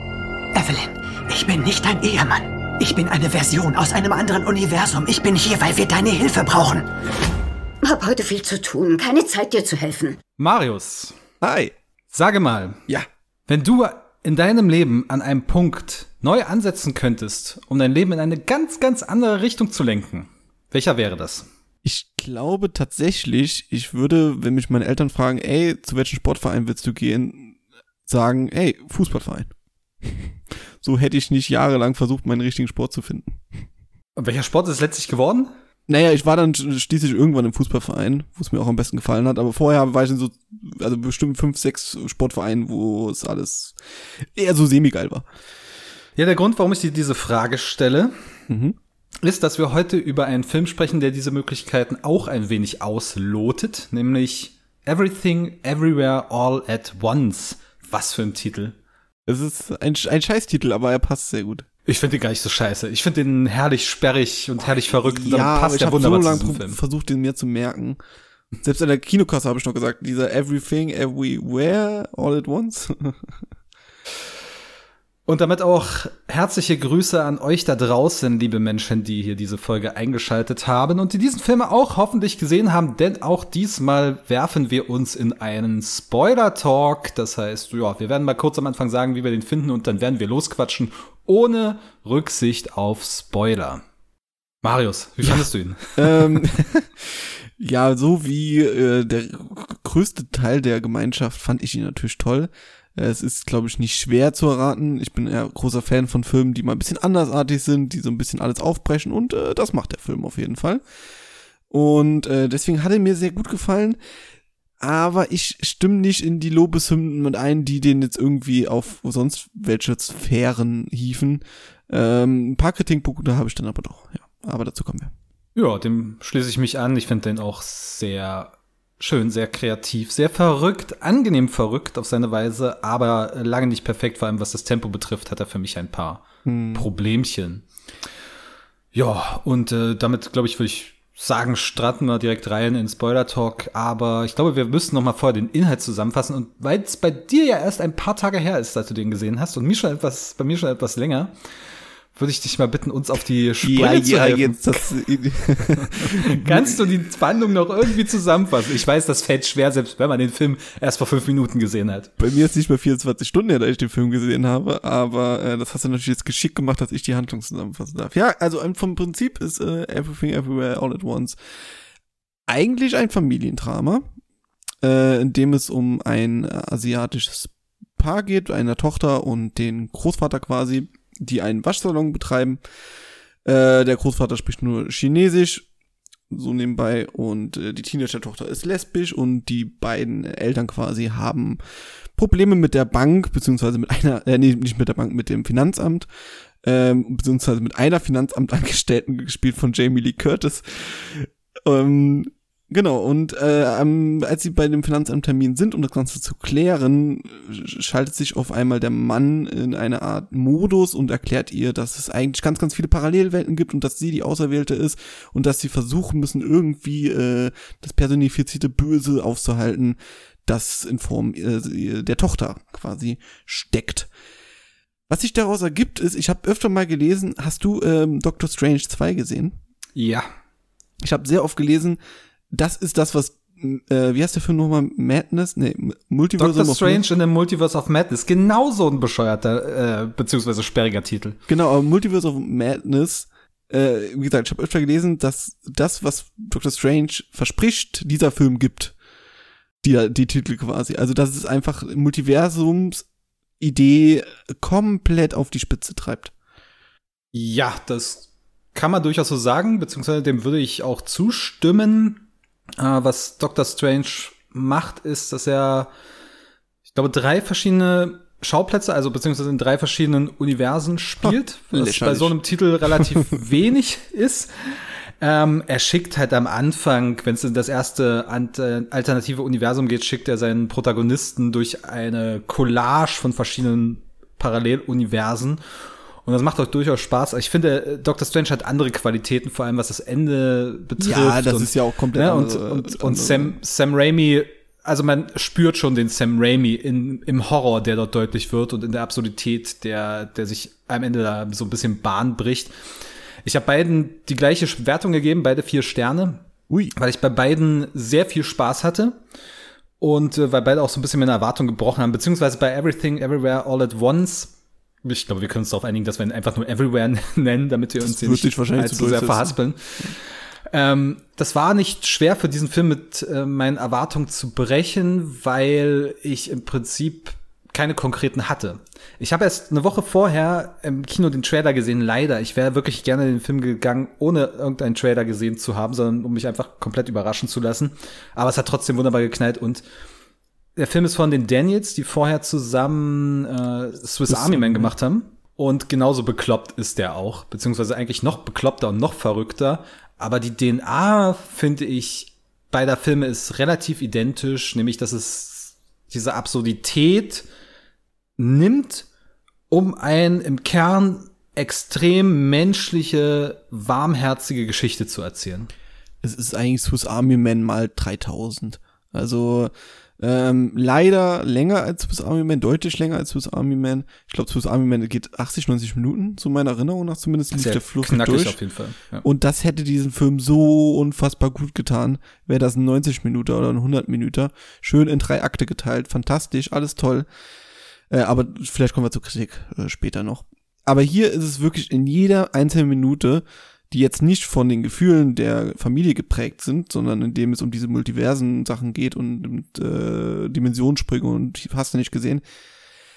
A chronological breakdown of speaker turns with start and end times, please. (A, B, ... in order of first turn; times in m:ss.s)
0:00.6-0:06.9 A
0:07.8-0:10.2 B
0:10.4-0:11.2 C
0:11.4-0:11.7 D
0:12.1-0:12.8 C
0:13.5-0:21.5 C
0:21.8-0:27.6 D
0:28.1-0:29.5 D
0:30.0-0:33.4 D
0:34.2-0:35.5 C
0:35.9-0:43.8 D
0:44.4-0:45.3 D
0:46.2-0:48.1 C
0:48.5-0:48.8 D
0:49.2-0:58.8 C
0:59.3-1:01.7 D
1:01.9-1:06.8 C
1:05.0-1:08.0 D
1:08.6-1:13.4 D
1:15.3-1:33.8 C
1:34.6-1:36.4 C
1:36.0-1:50.8 D
1:51.7-1:54.0 D
1:54.8-2:05.1 D
2:05.6-2:17.6 C
2:16.4-2:16.9 D
2:18.9-2:31.3 C
2:32.2-2:34.9 C
2:33.6-2:36.8 D
2:35.9-2:42.1 C
2:42.2-2:51.4 D
2:52.5-2:54.0 D
2:54.8-3:02.6 D
3:03.4-3:05.7 D
3:06.3-3:11.6 D
3:12.2-3:16.1 D
3:16.6-3:44.1 D
3:45.1-3:49.6 D
3:50.0-3:50.3 C
3:51.0-3:52.0 D
3:52.5-3:57.0 D
3:56.4-4:01.4 C
4:01.5-4:08.9 D
4:09.8-4:13.0 D
4:13.6-4:16.3 D
4:17.3-4:22.3 C
4:22.8-4:25.9 C
4:26.9-4:45.6 C
4:31.2-4:32.4 D
4:46.2-5:02.7 C
4:51.0-4:53.6 D
5:03.4-5:09.2 C
5:10.0-5:14.5 C
5:15.0-5:20.1 C
5:18.0-5:20.1 D
5:20.7-5:39.8 C
5:40.8-5:57.4 C
5:44.3-5:44.9 D
5:58.4-5:59.1 C
5:59.7-6:05.7 C
6:06.2-6:18.6 D
6:17.6-6:19.2 C
6:19.2-6:27.3 D
6:28.1-6:42.4 D